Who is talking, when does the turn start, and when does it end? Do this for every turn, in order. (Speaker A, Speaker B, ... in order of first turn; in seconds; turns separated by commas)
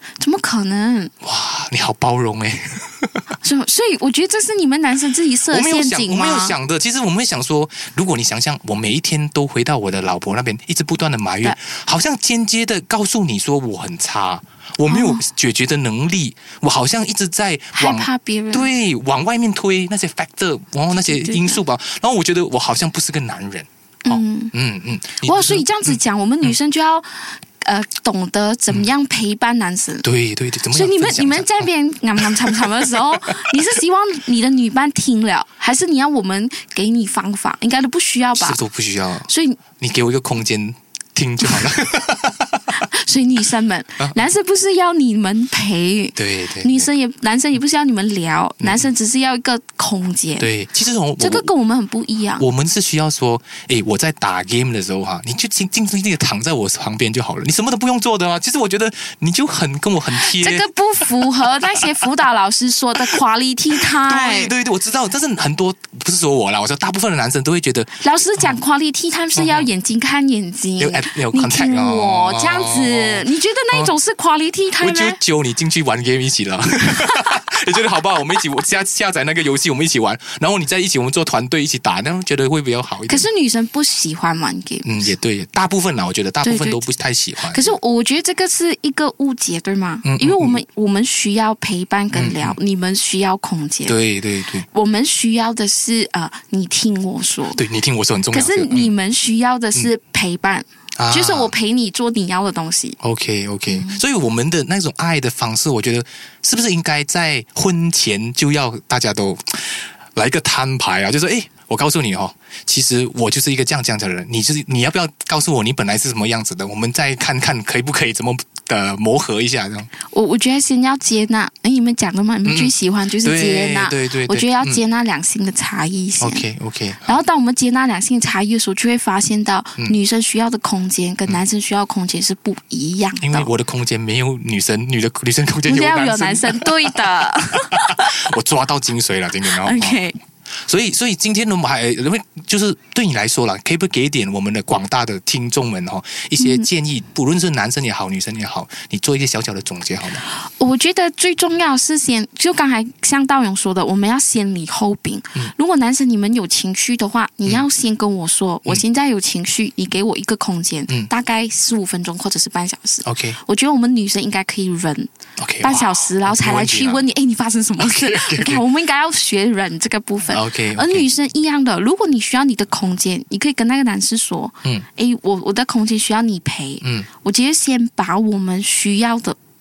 Speaker A: 0.2-1.1, Speaker B: 1.2-3.2, Speaker A: 3.4-6.5, Speaker B: 5.5-26.5, Speaker A: 14.9-15.2, Speaker A: 17.7-18.7, Speaker A: 21.1-21.6, Speaker A: 24.0-24.5, Speaker A: 25.2-30.0, Speaker B: 30.0-33.5, Speaker A: 30.7-38.6, Speaker B: 38.4-42.6, Speaker A: 39.3-39.6, Speaker A: 42.8-50.5, Speaker B: 46.1-46.9, Speaker B: 48.6-48.9, Speaker B: 50.4-51.5, Speaker A: 51.2-52.5, Speaker B: 52.4-61.9, Speaker A: 60.1-64.5, Speaker B: 63.8-68.6, Speaker A: 68.0-75.2, Speaker B: 69.3-69.7, Speaker B: 70.8-73.9, Speaker B: 74.8-83.3, Speaker A: 83.1-84.9, Speaker B: 84.8-87.8, Speaker A: 86.4-86.8, Speaker A: 87.5-93.9, Speaker B: 90.0-90.6, Speaker B: 92.1-92.6, Speaker B: 93.8-94.7, Speaker A: 94.7-97.6, Speaker B: 97.5-98.9, Speaker A: 98.3-103.0, Speaker B: 101.0-101.5, Speaker B: 103.0-119.9, Speaker A: 103.7-104.0, Speaker A: 120.1-126.5, Speaker B: 122.4-124.8, Speaker B: 126.2-127.2, Speaker A: 127.1-133.5, Speaker B: 133.2-140.0, Speaker A: 135.7-138.2, Speaker A: 139.5-140.2, Speaker B: 140.7-150.2, Speaker A: 146.4-146.7, Speaker A: 150.3-165.1, Speaker B: 163.0-163.4, Speaker B: 165.4-167.1, Speaker A: 165.6-179.4, Speaker B: 167.8-168.6, Speaker B: 170.3-171.1, Speaker B: 176.8-177.1